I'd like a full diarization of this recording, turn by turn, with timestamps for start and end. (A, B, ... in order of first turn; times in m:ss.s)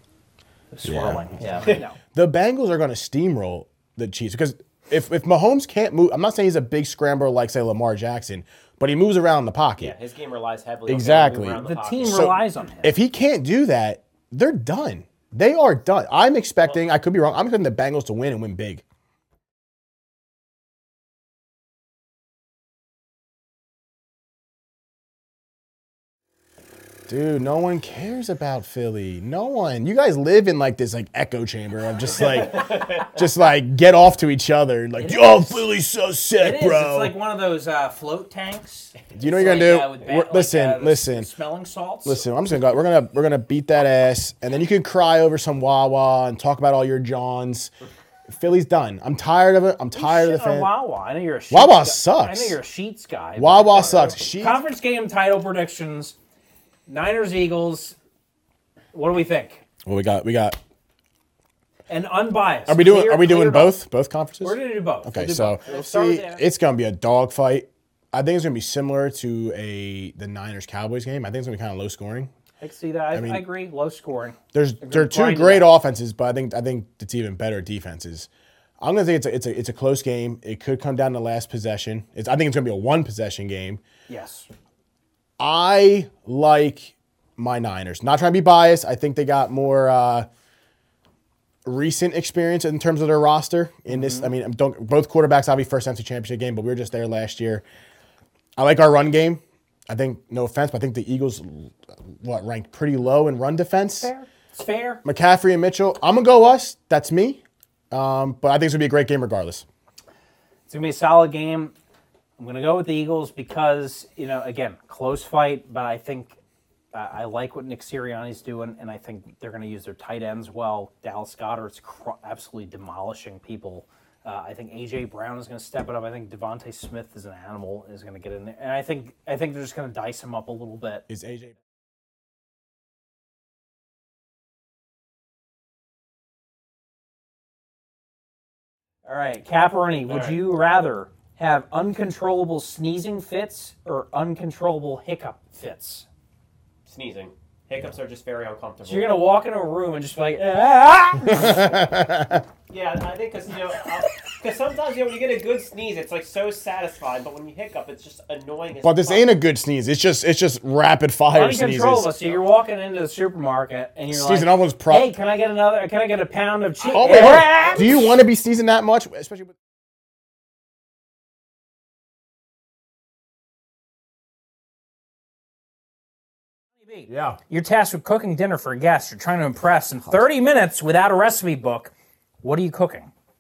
0:00.7-0:02.0 A
0:00.8-0:10.0 B
0:09.8-0:12.4 C
0:10.9-0:18.8 B
0:11.6-0:13.0 A
0:27.1-0:37.1 B
0:32.5-0:33.0 C
0:35.0-0:35.6 A
0:36.4-0:42.2 A
0:39.1-0:41.3 B
0:42.0-0:47.7 B
0:48.3-0:50.7 B
0:49.9-0:56.2 A
0:51.5-0:52.6 B
0:53.4-0:54.6 B
0:56.9-0:58.0 A
0:58.9-0:59.6 A
0:59.8-1:00.6 B
1:01.9-1:03.8 A
1:02.7-1:12.3 B
1:04.4-1:06.4 A
1:12.6-1:15.7 A
1:13.1-1:13.4 B
1:14.5-1:18.3 B
1:18.8-1:23.8 B
1:24.1-1:24.5 A
1:25.4-1:30.3 B
1:31.6-1:37.6 B
1:33.9-1:34.3 A
1:38.6-1:44.1 B
1:44.0-1:45.0 A
1:45.0-1:47.4 B
1:47.9-1:49.6 B
1:50.7-1:51.7 A
1:52.4-1:56.4 A
1:56.9-2:11.0 A
2:11.1-2:11.5 B
2:19.0-2:26.1 A
2:20.1-2:20.4 C
2:26.9-2:29.2 C
2:28.8-2:31.7 A
2:31.2-2:32.4 B
2:32.7-2:39.3 C
2:38.8-2:42.1 B
2:41.3-2:48.1 A
2:44.1-2:45.1 B
2:46.8-2:48.0 C
2:46.9-2:49.6 B
2:56.8-3:03.1 A
2:57.1-2:57.4 B